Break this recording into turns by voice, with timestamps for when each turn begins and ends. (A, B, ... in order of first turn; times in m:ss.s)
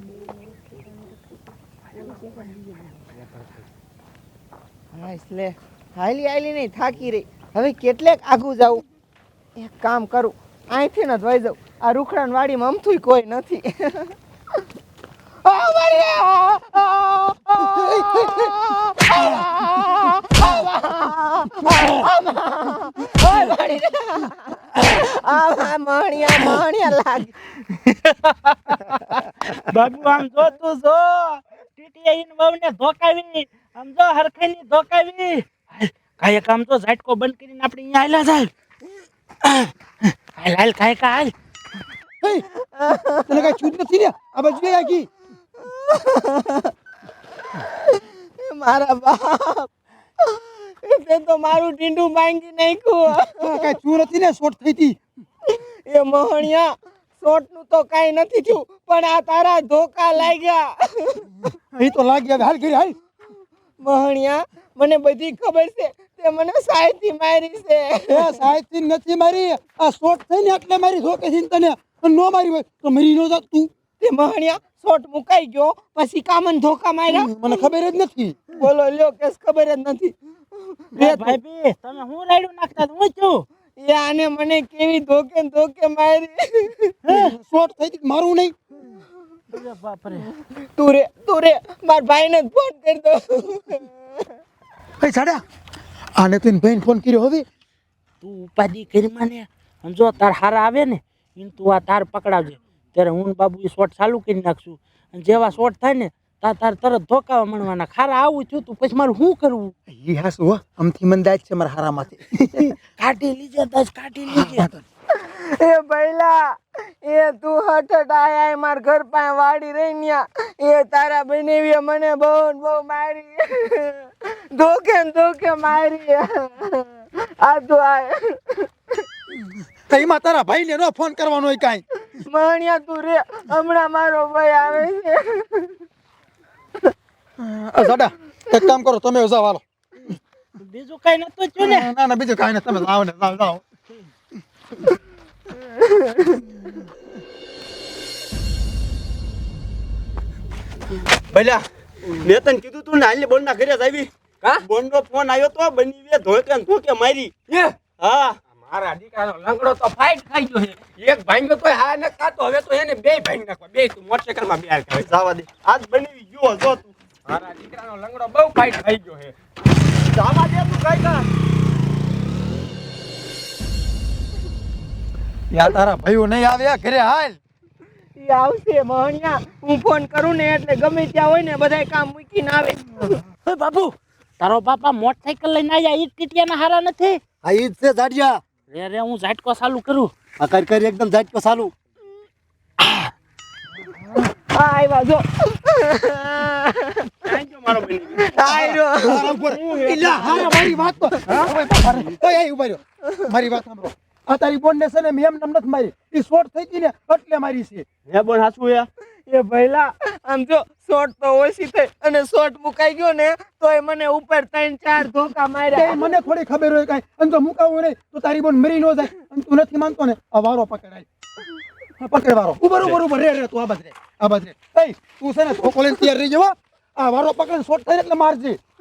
0:04.9-0:08.8 A
0:09.6-0:14.1 A
0:15.4-0:27.3 A
0:27.8-0:28.8 B
0:29.5-0:38.5 B
0:39.4-0:39.7 B
0:40.3-0:41.3 B
0:42.8-0:43.6 A
0:43.3-0:45.1 C
0:45.6-0:46.7 A
0:48.4-0:49.7 A
0:50.2-0:53.7 A
0:53.3-0:55.0 C
0:55.5-1:01.5 A
1:01.7-1:02.9 C
1:03.8-1:08.5 A
1:08.1-1:13.7 C
1:14.0-1:17.6 A
1:17.1-1:18.6 C
1:18.6-1:21.4 A
1:21.0-1:23.4 B
1:23.8-1:26.9 A
1:27.0-1:27.3 B
1:27.1-1:28.5 C
1:29.5-1:30.3 B
1:30.6-1:34.0 A
1:35.0-1:35.4 C
1:36.2-1:37.4 C
1:38.2-1:49.7 B
1:49.9-1:52.7 C
1:52.8-1:54.7 B
1:54.3-1:54.8 C
1:55.1-2:08.7 A
2:09.9-2:11.8 C
2:12.2-2:15.8 A
2:17.4-2:19.6 C
2:20.6-2:21.9 B
2:21.6-2:23.6 C
2:25.8-2:26.4 A
2:32.2-2:37.3 D
2:37.5-2:37.8 E
2:38.0-2:38.3 D
2:38.5-2:45.1 E
2:45.0-2:46.9 D
2:47.3-2:49.3 E
2:50.2-2:51.2 D
2:55.5-2:57.4 C
2:58.2-3:03.2 A
3:03.4-3:07.2 B
3:07.4-3:08.4 F
3:08.7-3:10.1 B
3:10.4-3:11.7 F
3:14.5-3:17.4 A
3:18.1-3:20.7 A
3:18.6-3:27.8 C
3:28.1-3:28.9 D
3:29.3-3:36.1 A
3:35.7-3:41.1 C
3:42.0-3:48.6 C